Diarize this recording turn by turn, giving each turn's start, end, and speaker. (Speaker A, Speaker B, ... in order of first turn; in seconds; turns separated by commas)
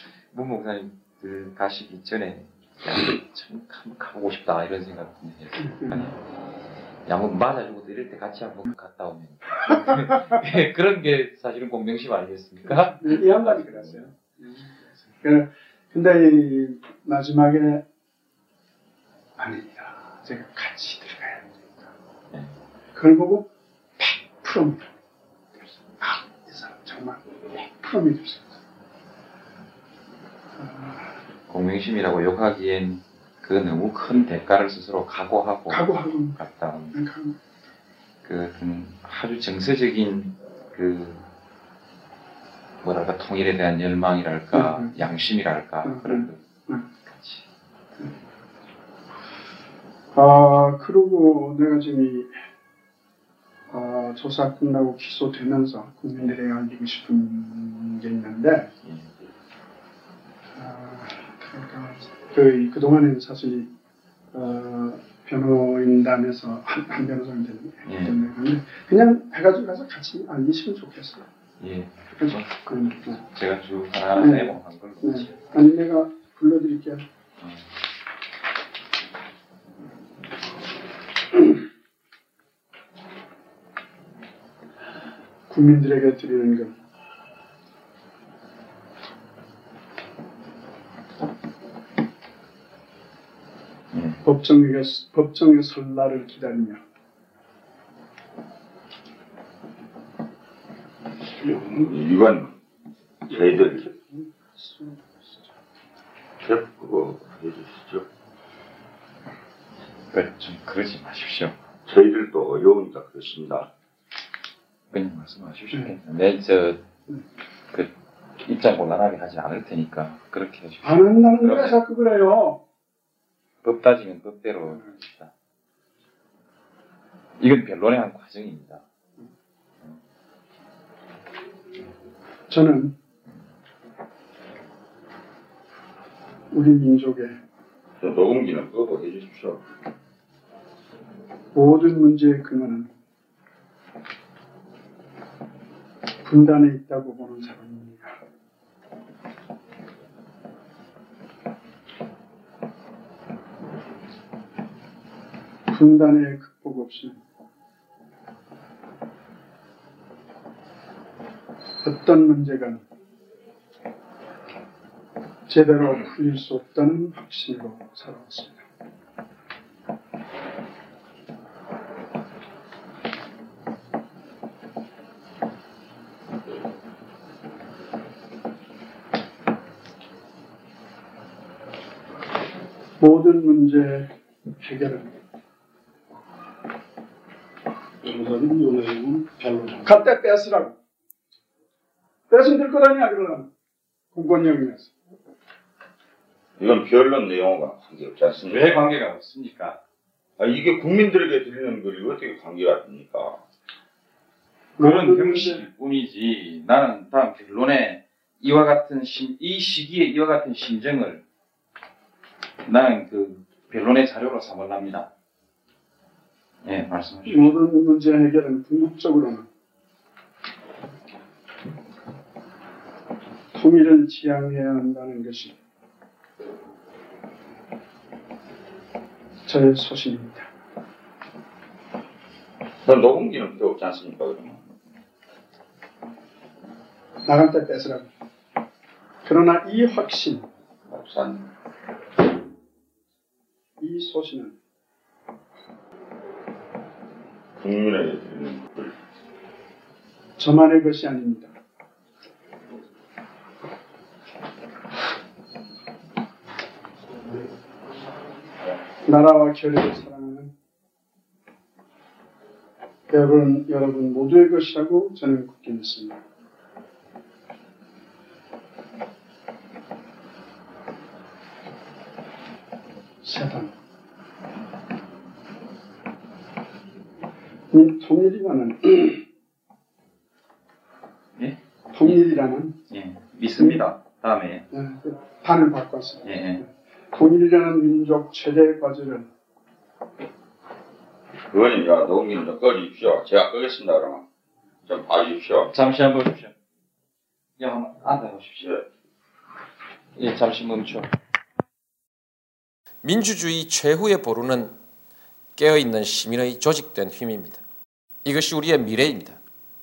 Speaker A: 0.3-6.2, Speaker B: 5.6-6.1, Speaker A: 7.0-14.1, Speaker B: 12.6-17.8, Speaker B: 19.4-21.9, Speaker B: 22.9-24.9, Speaker B: 26.0-28.6, Speaker B: 30.6-31.2, Speaker A: 31.5-36.9, Speaker B: 35.7-36.4, Speaker B: 36.9-37.4, Speaker A: 38.2-41.2, Speaker A: 42.8-46.4, Speaker B: 44.5-45.0, Speaker B: 45.8-46.8, Speaker A: 47.1-47.4, Speaker B: 50.1-52.3, Speaker B: 53.7-58.7, Speaker A: 58.8-59.1, Speaker B: 60.5-63.7, Speaker B: 64.3-71.3, Speaker A: 67.8-68.2, Speaker A: 71.6-75.3, Speaker B: 72.2-73.2, Speaker B: 74.2-77.0, Speaker A: 77.4-77.7, Speaker B: 85.5-86.7, Speaker A: 93.9-94.2, Speaker B: 94.2-96.8, Speaker C: 101.5-102.5, Speaker C: 103.3-103.9, Speaker B: 103.3-105.3, Speaker C: 106.4-108.0, Speaker A: 110.1-111.5, Speaker C: 111.8-113.7, Speaker A: 114.9-116.8, Speaker A: 117.7-121.8, Speaker B: 120.8-122.6, Speaker A: 123.6-125.3, Speaker A: 127.4-128.8, Speaker B: 132.5-132.9, Speaker B: 136.5-137.4, Speaker C: 138.0-139.6, Speaker B: 141.5-142.9, Speaker B: 146.2-148.2, Speaker B: 155.7-157.2, Speaker B: 161.8-162.8, Speaker B: 165.5-168.6, Speaker B: 183.0-185.2, Speaker D: 188.0-190.1, Speaker B: 189.8-190.8, Speaker B: 192.3-193.5, Speaker B: 194.1-194.9, Speaker C: 196.6-198.8, Speaker A: 198.5-199.8, Speaker C: 200.4-203.4, Speaker B: 204.8-205.7, Speaker A: 204.8-211.2, Speaker A: 212.6-215.1, Speaker A: 216.6-217.5, Speaker B: 217.2-219.5, Speaker B: 223.5-225.6, Speaker B: 229.4-230.5, Speaker C: 232.8-234.7, Speaker B: 237.2-238.1, Speaker B: 239.2-240.5, Speaker C: 240.9-241.4, Speaker B: 243.8-244.5, Speaker C: 247.6-248.9, Speaker B: 250.4-251.5, Speaker B: 259.0-260.5, Speaker B: 263.1-266.2, Speaker B: 273.2-273.7, Speaker B: 277.7-279.2, Speaker A: 281.4-282.2, Speaker B: 281.9-282.8, Speaker A: 282.9-284.6, Speaker B: 283.6-283.9, Speaker B: 284.7-289.3, Speaker A: 286.2-286.6, Speaker C: 291.5-294.2, Speaker C: 294.9-295.7, Speaker A: 295.7-296.5, Speaker A: 297.6-298.8, Speaker A: 300.1-301.1, Speaker E: 303.0-304.7, Speaker E: 305.6-307.6, Speaker E: 308.2-309.4